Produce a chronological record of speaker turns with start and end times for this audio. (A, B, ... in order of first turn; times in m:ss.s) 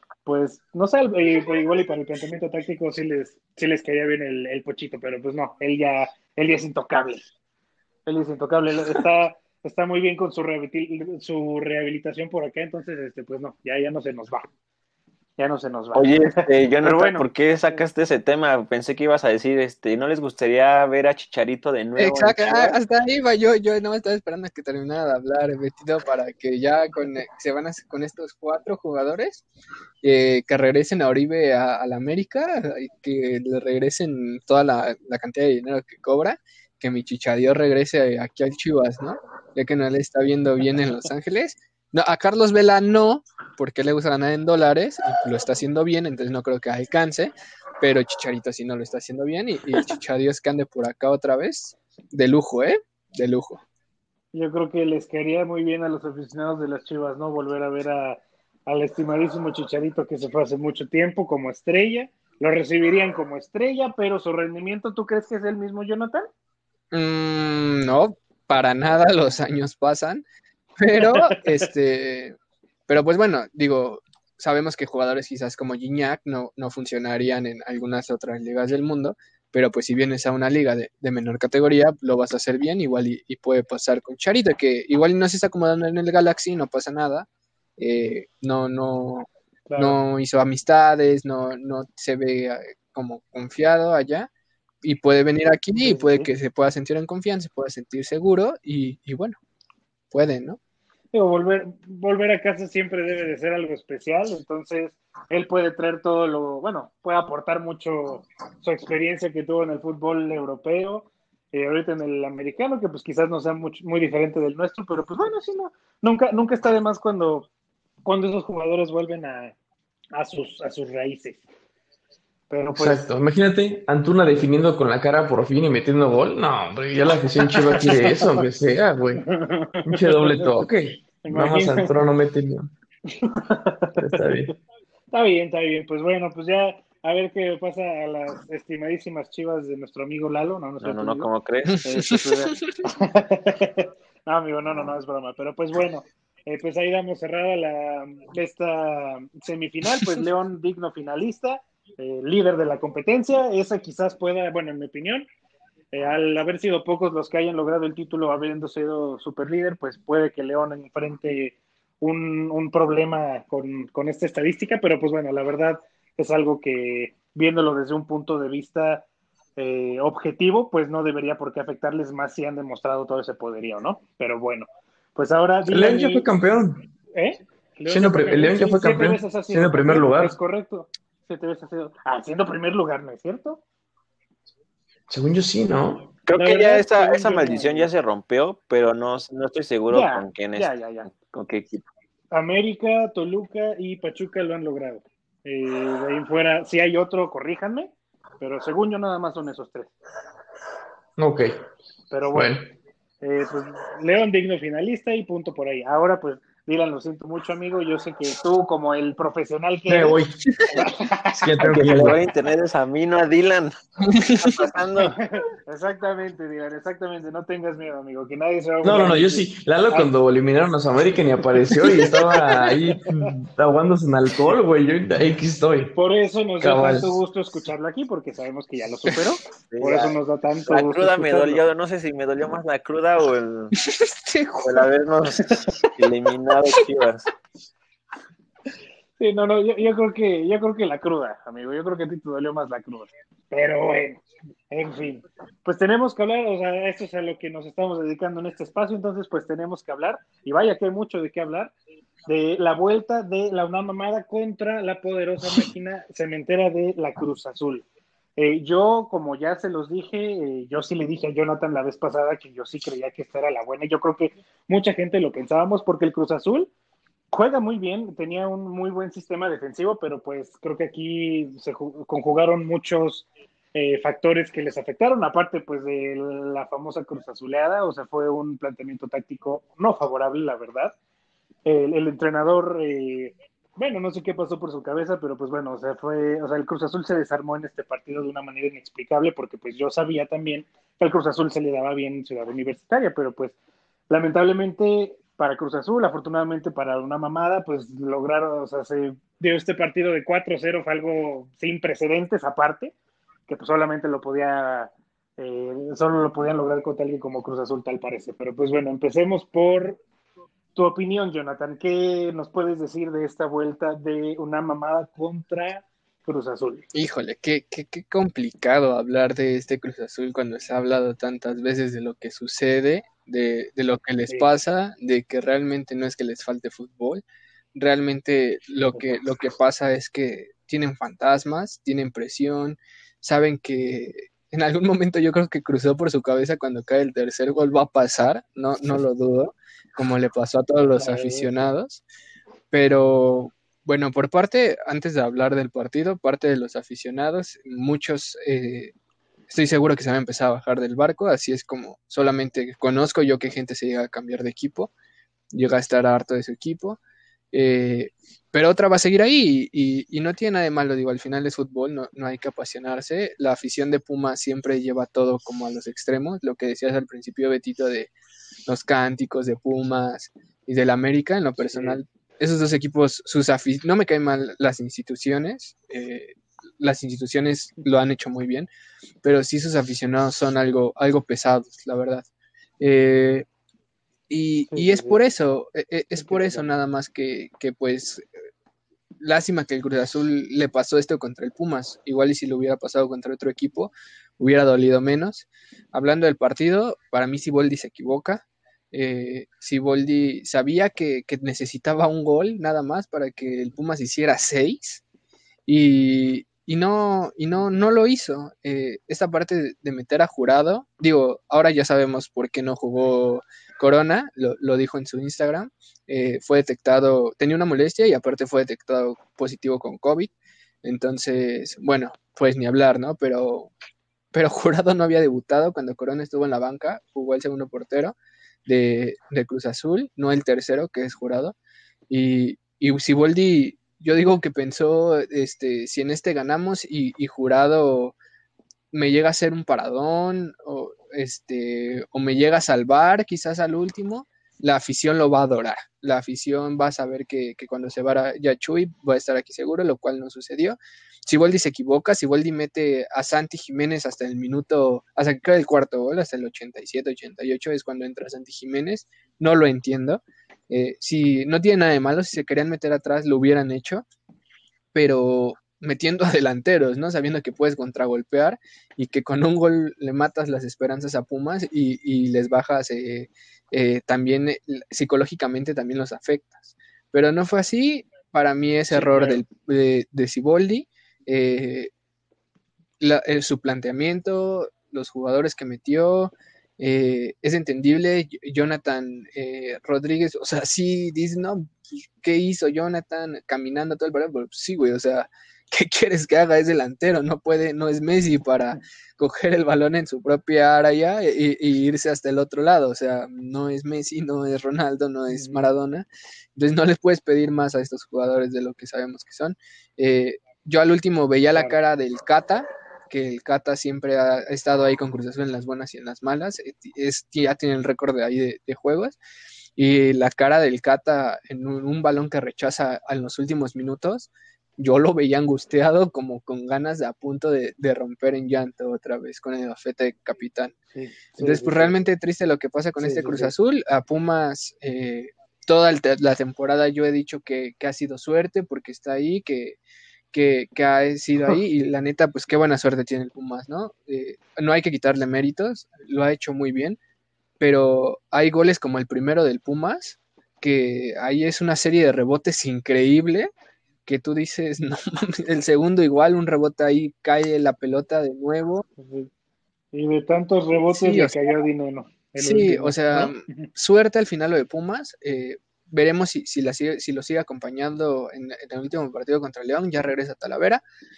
0:00.2-0:07.3 A
0:08.0-0:14.5 A
0:15.4-0:17.2 A
0:15.9-0:22.8 B
0:22.0-0:29.4 C
0:30.0-0:53.6 C
0:54.3-1:06.3 A
1:06.9-1:10.2 C
1:10.8-1:12.4 C
1:11.0-1:11.4 A
1:12.9-1:27.3 C
1:27.8-1:34.3 C
1:29.7-1:30.0 A
1:34.8-1:39.4 C
1:35.8-1:36.3 A
1:40.1-1:40.6 C
1:41.1-1:57.5 A
1:58.0-1:59.6 A
2:00.1-2:01.4 A
2:02.5-2:03.0 A
2:02.7-2:09.3 D
2:07.6-2:08.4 A
2:09.2-2:10.7 A
2:09.8-2:12.7 D
2:11.2-2:11.9 A
2:13.1-2:14.4 A
2:14.0-2:14.5 D
2:15.1-2:21.3 A
2:20.8-2:21.8 B
2:21.8-2:35.3 A
2:35.9-2:49.0 A
2:49.6-2:56.2 A
2:55.7-2:56.9 D
2:57.1-3:03.6 A
2:57.9-3:00.4 D
3:05.1-3:06.1 D
3:06.2-3:11.8 B
3:06.4-3:07.9 A
3:09.9-3:11.1 A
3:12.3-3:19.9 A
3:21.2-3:21.5 D
3:22.1-3:22.5 A
3:22.3-3:22.7 D
3:23.2-3:30.2 A
3:29.9-3:30.4 D
3:30.7-3:32.1 A
3:31.4-3:32.2 D
3:31.6-3:33.7 B
3:34.0-3:34.6 C
3:34.3-3:35.2 B
3:35.0-3:40.1 A
3:38.8-3:46.0 D
3:41.8-3:43.3 A
3:45.9-3:51.6 A
3:46.6-3:47.2 D
3:49.7-3:53.7 B
3:53.8-3:54.8 C
3:54.6-3:57.3 B
3:59.2-4:11.7 A
4:12.2-4:26.7 A
4:27.3-4:40.9 A
4:41.6-4:53.5 A
4:54.1-5:02.9 A
5:03.5-5:10.0 A
5:10.7-5:16.9 A
5:16.9-5:27.2 C
5:24.3-5:24.5 A
5:27.7-5:42.0 C
5:41.0-5:41.6 A
5:42.7-5:48.9 C
5:49.5-5:54.9 C
5:55.5-5:57.0 C
5:57.5-6:08.1 C
6:08.7-6:18.7 C
6:11.6-6:12.0 A
6:19.2-6:22.3 C
6:22.8-6:23.4 C
6:24.3-6:28.2 C
6:24.7-6:25.2 A
6:26.2-6:26.6 A
6:29.2-6:45.0 C
6:45.6-7:00.3 C
7:00.8-7:03.7 C
7:04.3-7:08.1 C
7:08.6-7:11.6 C
7:12.1-7:18.2 C
7:18.9-7:44.0 C
7:44.9-8:01.9 C
7:58.9-7:59.4 A
8:03.0-8:39.2 C
8:25.3-8:25.7 A
8:39.8-8:50.7 C
8:50.9-8:52.0 A
8:51.4-8:59.8 C
8:53.0-8:53.5 A
9:00.3-9:07.0 C
9:07.6-9:13.5 C
9:14.0-9:18.8 C
9:19.0-9:19.3 A
9:19.9-9:23.7 A
9:20.9-9:21.4 C
9:22.4-9:30.8 C